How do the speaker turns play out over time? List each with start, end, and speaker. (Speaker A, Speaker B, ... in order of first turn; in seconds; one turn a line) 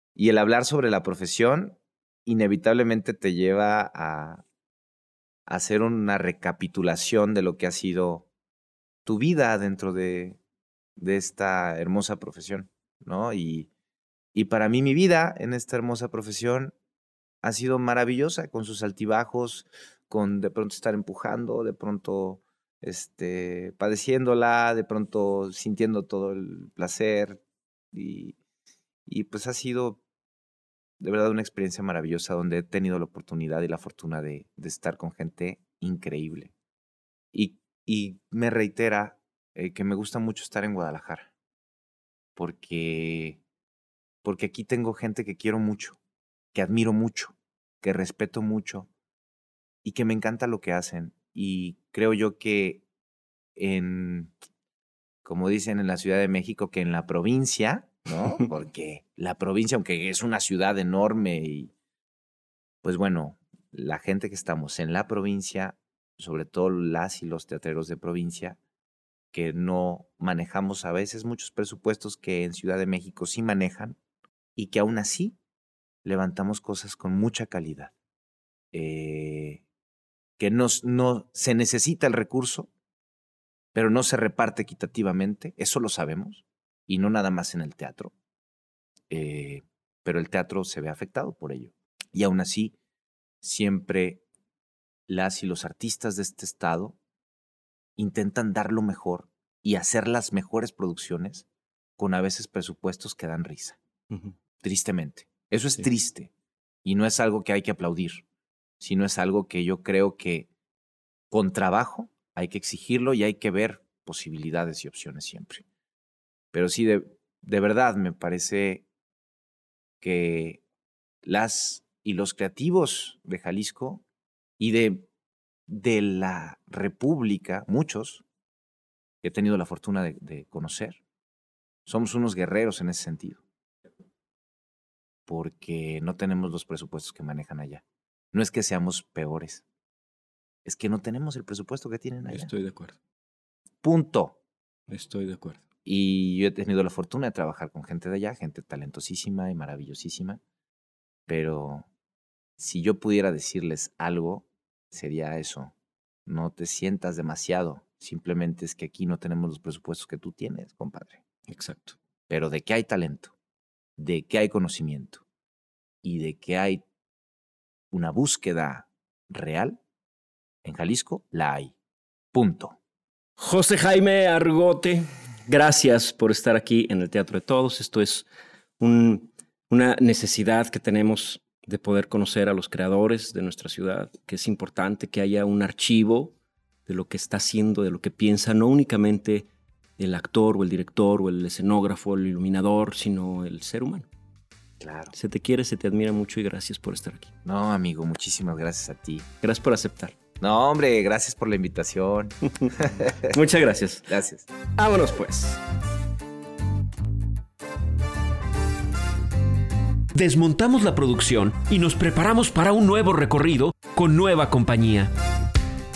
Speaker A: 0.1-4.4
Speaker A: 5.5-8.3
Speaker A: 9.0-10.4
Speaker A: 11.0-13.7
Speaker A: 14.3-16.7
Speaker A: 17.4-27.4
Speaker A: 27.9-28.4
Speaker A: 29.1-30.0
Speaker A: 31.0-36.5
Speaker A: 37.3-41.3
Speaker A: 42.4-43.4
Speaker A: 44.2-46.0
Speaker A: 46.5-48.9
Speaker A: 49.8-52.8
Speaker A: 53.5-54.3
Speaker A: 55.2-61.7
Speaker A: 62.8-68.6
Speaker A: 69.3-74.0
Speaker A: 74.5-75.4
Speaker A: 76.0-77.9
Speaker A: 78.7-79.6
Speaker A: 80.4-82.7
Speaker A: 83.7-88.1
Speaker A: 89.1-92.8
Speaker A: 93.4-94.2
Speaker A: 95.1-97.0
Speaker A: 98.0-101.5
Speaker A: 102.0-103.8
Speaker A: 104.6-106.3
Speaker A: 106.8-108.2
Speaker A: 108.8-110.5
Speaker A: 111.3-115.6
Speaker A: 116.5-118.8
Speaker A: 120.0-120.6
Speaker A: 121.2-124.0
Speaker A: 124.6-125.1
Speaker A: 125.7-128.2
Speaker A: 129.2-131.0
Speaker A: 131.8-133.4
Speaker A: 135.3-139.6
Speaker A: 140.6-142.5
Speaker B: 142.3-143.0
Speaker A: 143.8-144.4
Speaker B: 144.9-145.6
Speaker A: 145.8-150.4
Speaker A: 151.3-151.9
Speaker A: 152.6-155.7
Speaker A: 156.2-161.2
Speaker B: 161.5-162.0
Speaker A: 162.3-163.3
Speaker A: 164.0-165.2
Speaker A: 166.0-166.8
Speaker A: 167.9-169.8
Speaker A: 170.6-171.7
Speaker A: 172.3-172.8
Speaker B: 173.4-178.3
Speaker B: 178.8-186.3
Speaker B: 186.8-194.1
Speaker A: 194.8-195.1
Speaker B: 195.1-197.3
Speaker A: 197.4-199.3
Speaker B: 199.4-200.1
Speaker A: 200.4-203.3
Speaker B: 203.3-204.1
Speaker A: 204.1-204.4
Speaker B: 204.8-205.6
Speaker C: 210.1-215.1